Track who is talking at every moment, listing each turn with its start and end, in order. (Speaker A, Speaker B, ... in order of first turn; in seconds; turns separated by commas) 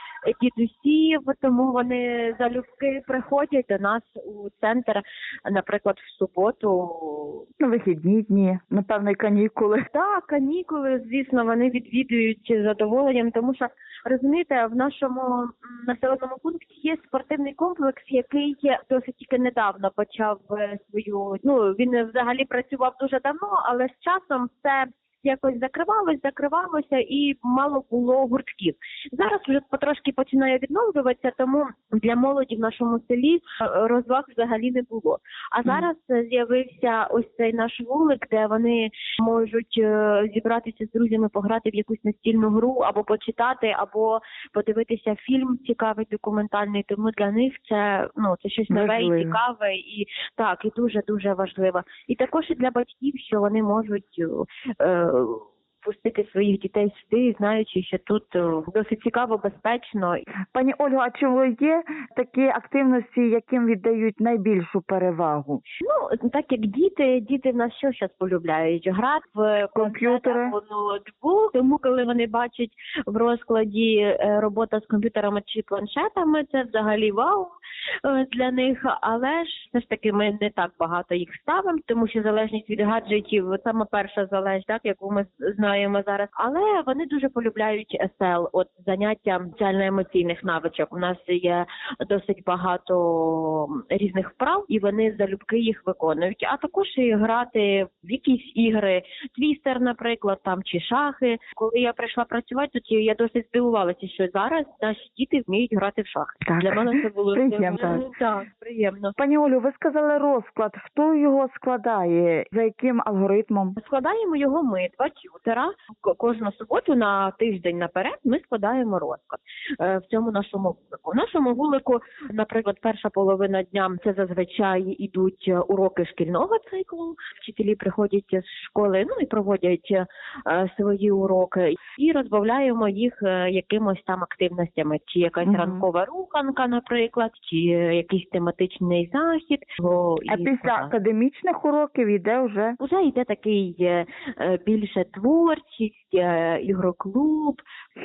Speaker A: 0.3-7.5, Speaker B: 7.6-9.9, Speaker A: 9.9-60.2, Speaker B: 48.7-49.4, Speaker B: 60.5-65.6, Speaker A: 65.8-77.5, Speaker B: 69.7-70.5, Speaker A: 78.0-109.2, Speaker B: 106.4-108.0, Speaker B: 109.2-113.8, Speaker A: 113.8-140.9, Speaker B: 135.4-135.8, Speaker B: 140.3-142.8, Speaker A: 142.8-147.6